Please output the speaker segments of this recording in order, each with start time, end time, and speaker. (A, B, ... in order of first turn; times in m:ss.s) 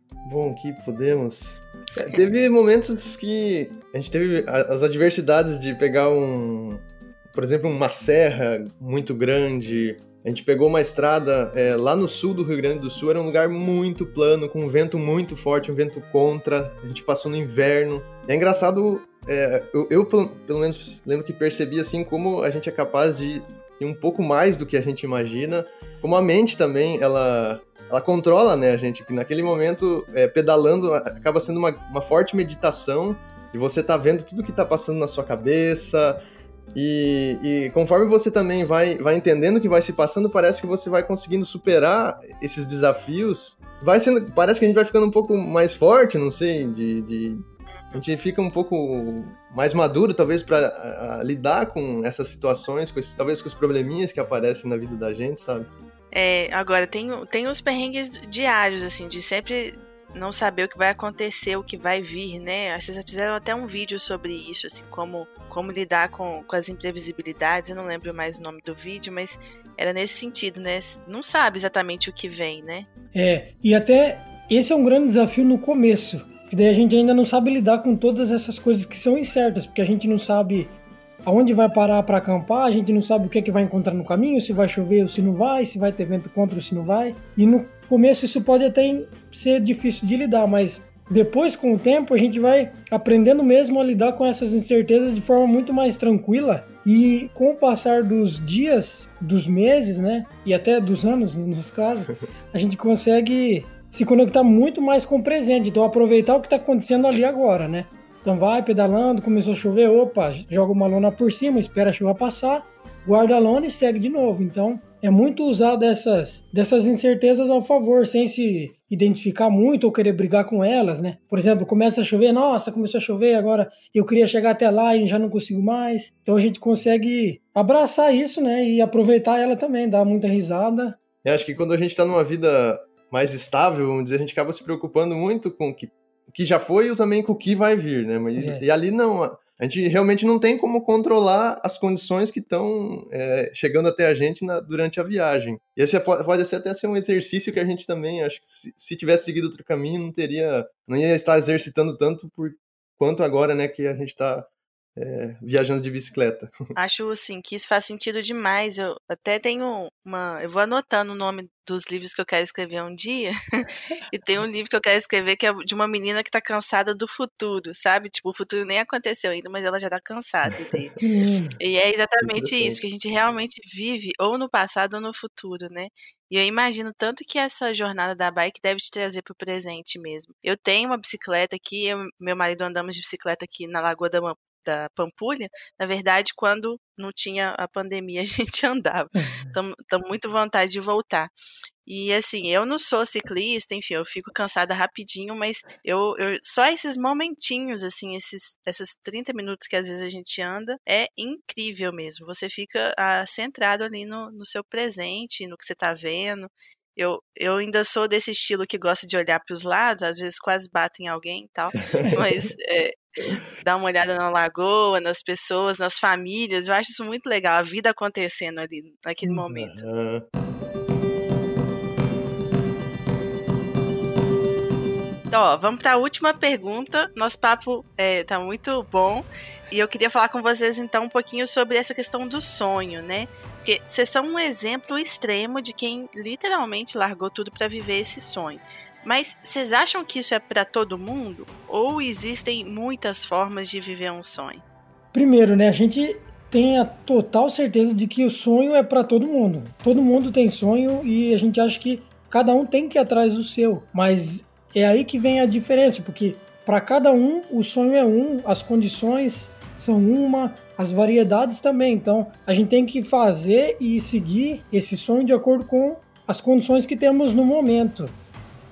0:00.2-0:36.2 A
0:36.7-0:55.7 A
0:56.1-1:12.9 B
1:13.1-2:11.0 C
2:11.2-2:36.5 A
2:18.4-2:18.6 C
2:36.8-2:51.0 B
2:51.0-2:51.6 C
2:51.6-3:11.3 B
2:52.2-2:52.8 A
3:09.2-3:09.5 C
3:11.8-3:39.8 B
3:31.9-3:32.4 A
3:39.2-3:40.2 A
3:45.3-4:04.6 B
4:05.1-4:28.1 C